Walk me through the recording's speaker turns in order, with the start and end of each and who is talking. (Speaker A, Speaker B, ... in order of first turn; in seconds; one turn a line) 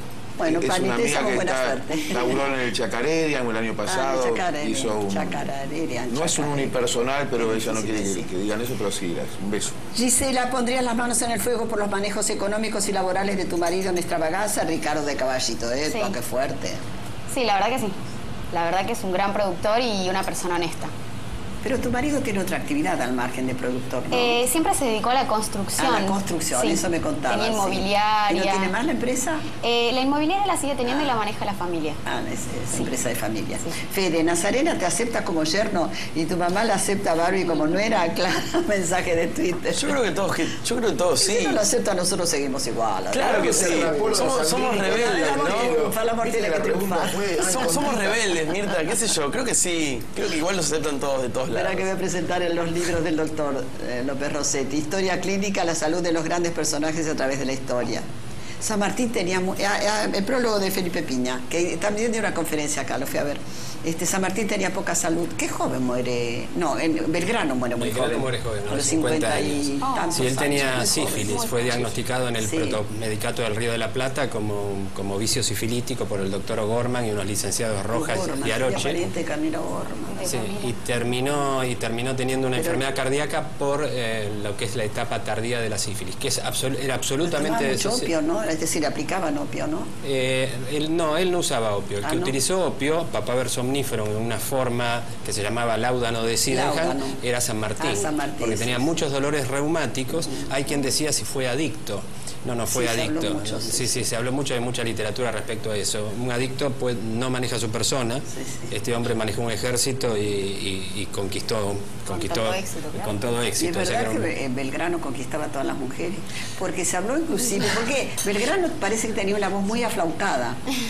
Speaker A: 0.4-2.4
Speaker B: 0.4-5.5
Speaker A: 3.9-6.8
Speaker B: 6.1-9.7
Speaker A: 7.4-8.3
Speaker A: 9.9-16.8
Speaker C: 15.9-16.1
Speaker C: 17.3-18.0
Speaker C: 18.5-20.9
Speaker A: 21.6-24.4
Speaker C: 24.1-28.7
Speaker A: 25.8-29.4
Speaker C: 29.6-32.0
Speaker A: 30.9-31.1
Speaker A: 32.0-40.0
Speaker D: 39.7-41.6
Speaker A: 41.2-44.1
Speaker D: 43.1-45.8
Speaker B: 43.2-48.2
Speaker A: 44.7-48.1
Speaker D: 47.4-51.9
Speaker A: 51.5-58.1
Speaker A: 58.6-71.8
Speaker E: 67.8-79.0
Speaker C: 69.8-71.9
Speaker A: 72.4-72.8
Speaker A: 77.9-80.3
Speaker C: 80.1-80.8
Speaker E: 80.2-88.1
Speaker A: 82.5-82.8
Speaker A: 87.2-89.9
Speaker E: 90.0-114.3
Speaker A: 92.0-92.3
Speaker A: 96.5-97.2
Speaker A: 97.8-98.9
Speaker A: 102.7-104.1
Speaker A: 108.3-108.7
Speaker C: 112.0-113.3
Speaker A: 113.6-120.6